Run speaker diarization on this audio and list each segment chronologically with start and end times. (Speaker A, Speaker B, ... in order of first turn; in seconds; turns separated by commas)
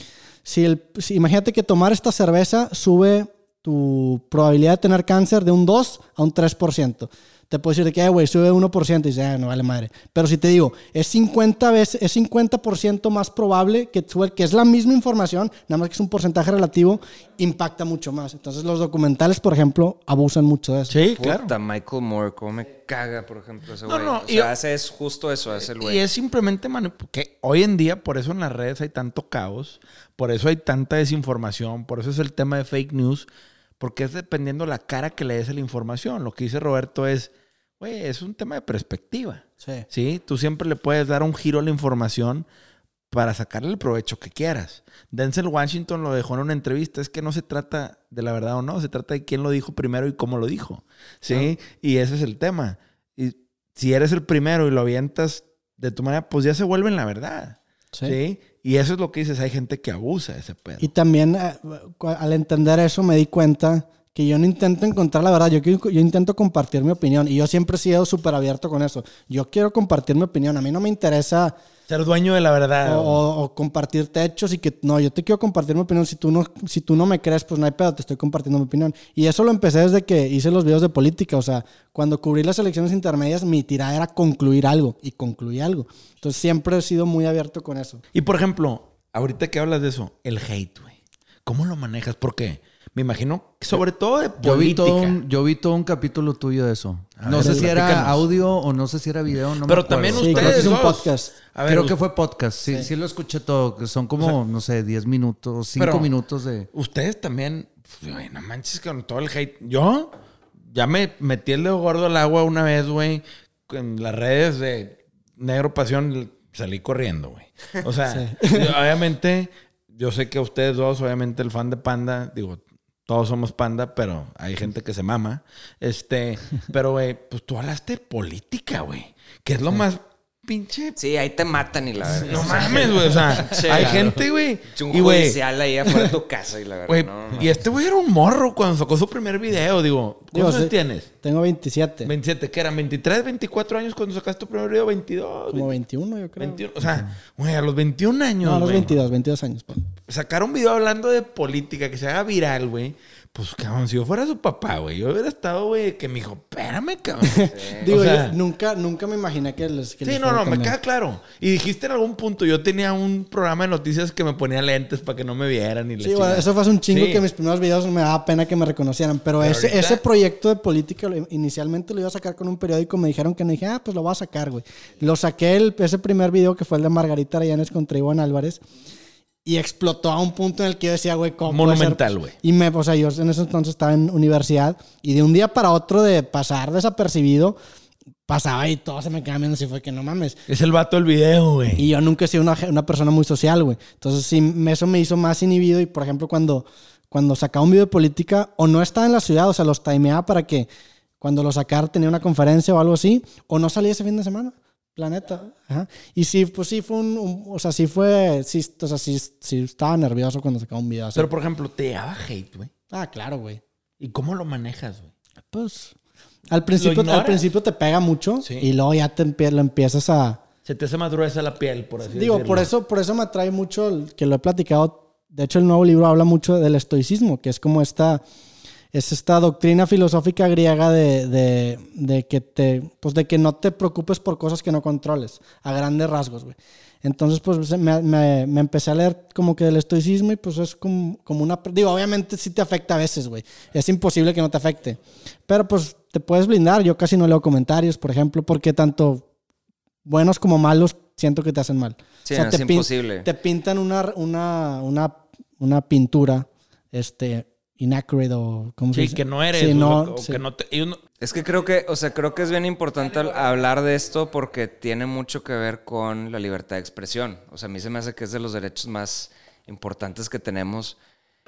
Speaker A: 0.4-20.9, Speaker B: 20.9-21.5, Speaker C: 21.2-26.0, Speaker B: 23.9-24.5, Speaker B: 25.6-33.3, Speaker B: 33.8-42.5, Speaker A: 39.6-39.9, Speaker B: 43.1-60.9, Speaker A: 60.8-71.5, Speaker B: 71.9-73.2, Speaker A: 72.8-88.0, Speaker B: 88.1-95.2, Speaker D: 94.4-100.7, Speaker B: 97.2-98.3, Speaker A: 97.4-97.8, Speaker B: 99.6-102.0, Speaker A: 100.2-101.3, Speaker D: 101.7-106.7, Speaker B: 105.8-106.1, Speaker B: 106.7-110.1, Speaker B: 110.7-131.0, Speaker A: 118.1-118.8, Speaker C: 131.0-134.1, Speaker B: 132.1-135.4, Speaker D: 133.7-134.2, Speaker C: 134.7-137.5, Speaker B: 136.9-141.1, Speaker A: 140.3-142.1, Speaker B: 142.0-145.7, Speaker A: 145.5-146.6, Speaker B: 146.4-148.9, Speaker A: 148.4-149.9, Speaker B: 150.1-158.3, Speaker A: 157.2-160.7, Speaker C: 157.5-157.9, Speaker B: 160.0-167.2, Speaker A: 166.0-178.6, Speaker B: 169.4-170.0, Speaker A: 179.4-187.6, Speaker B: 181.5-182.3, Speaker A: 188.3-190.4, Speaker B: 190.5-191.8, Speaker A: 191.8-200.7, Speaker A: 201.2-211.3, Speaker B: 211.1-212.7, Speaker A: 212.9-213.6, Speaker B: 214.0-215.1, Speaker A: 215.5-215.9, Speaker A: 216.5-220.4, Speaker B: 216.8-217.4, Speaker B: 220.6-222.7, Speaker A: 222.1-228.2, Speaker A: 228.9-249.2, Speaker A: 250.0-260.4, Speaker C: 252.2-253.3, Speaker B: 258.9-261.0, Speaker C: 261.2-270.9